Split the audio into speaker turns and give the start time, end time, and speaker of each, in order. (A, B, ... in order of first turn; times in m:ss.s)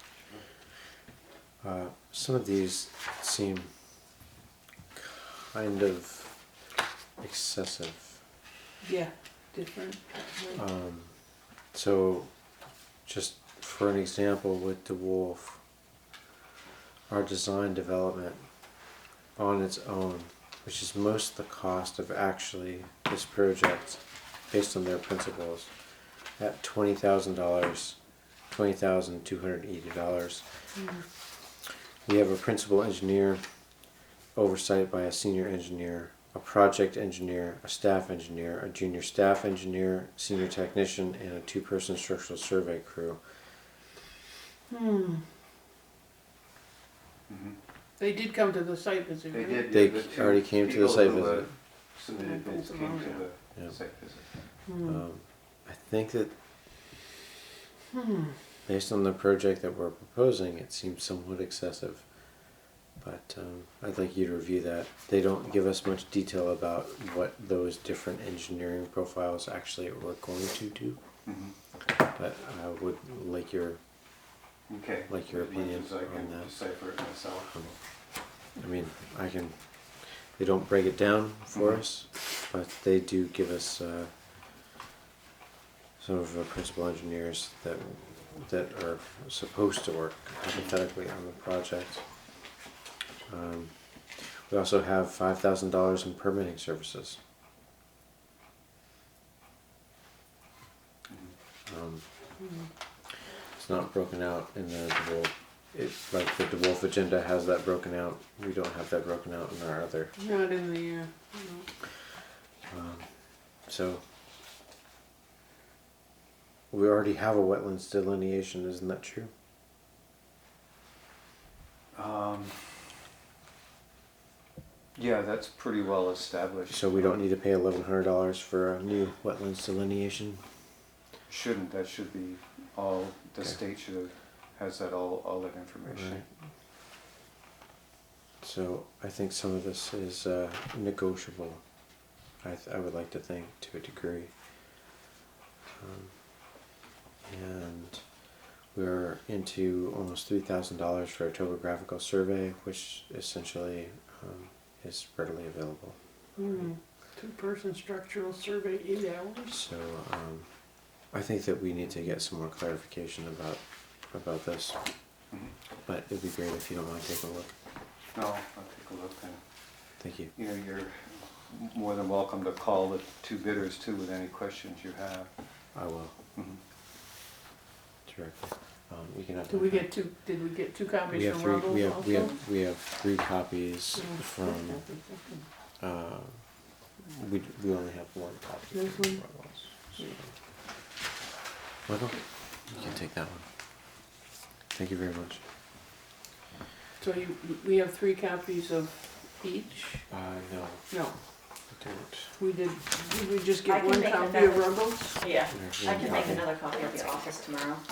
0:01.6-0:03.7 A
0:05.0-0:06.4 A
0:07.2-0:08.2 A
0:08.8-0:10.6 B
0:10.5-0:11.1 A
0:11.7-0:12.3 A
0:13.0-0:15.6 A
0:17.1-0:18.4 A
0:19.4-0:25.7 A
0:26.4-0:28.0 A
0:28.5-0:30.5 A
0:30.8-0:31.0 B
0:32.0-0:33.4 A
0:34.3-0:43.2 A
0:44.7-0:45.2 B
0:47.3-0:47.6 C
0:48.0-0:49.7 B
0:49.3-0:54.3 C
0:49.7-0:51.5 A
0:52.2-0:53.2 B
0:54.7-0:55.0 B
0:54.8-0:56.3 A
0:58.7-1:02.0 A
1:03.0-1:11.0 A
1:11.2-1:11.5 C
1:12.1-1:13.8 A
1:14.7-1:17.8 C
1:15.1-1:16.5 A
1:18.5-1:19.6 A
1:20.4-1:24.1 A
1:21.5-1:21.8 C
1:26.0-1:32.0 A
1:33.3-1:37.2 A
1:41.7-1:42.0 A
1:42.4-1:42.7 B
1:43.6-1:50.1 A
1:50.2-1:51.6 B
1:52.7-1:53.1 A
1:53.6-1:54.0 A
1:56.7-1:59.3 A
2:01.9-2:02.6 C
2:04.9-2:07.1 C
2:06.7-2:10.4 A
2:11.3-2:16.2 C
2:15.9-2:16.2 A
2:18.4-2:21.6 A
2:22.4-2:24.3 A
2:25.8-2:26.1 A
2:27.2-2:28.0 A
2:28.7-2:36.0 A
2:36.4-2:39.6 B
2:39.5-2:40.5 A
2:41.0-2:44.8 A
2:45.8-2:47.5 A
2:48.1-2:49.4 C
2:50.0-2:50.3 A
2:50.3-2:55.3 C
2:55.7-2:56.1 A
2:58.0-2:59.9 A
2:59.5-3:02.3 B
3:01.1-3:04.8 A
3:03.9-3:05.4 B
3:05.8-3:06.4 A
3:07.0-3:10.3 A
3:08.7-3:09.3 B
3:11.8-3:13.4 A
3:14.7-3:15.4 A
3:17.0-3:20.1 B
3:20.1-3:20.9 A
3:20.9-3:21.2 B
3:21.7-3:22.3 A
3:22.4-3:25.3 B
3:23.6-3:27.8 D
3:25.5-3:26.5 A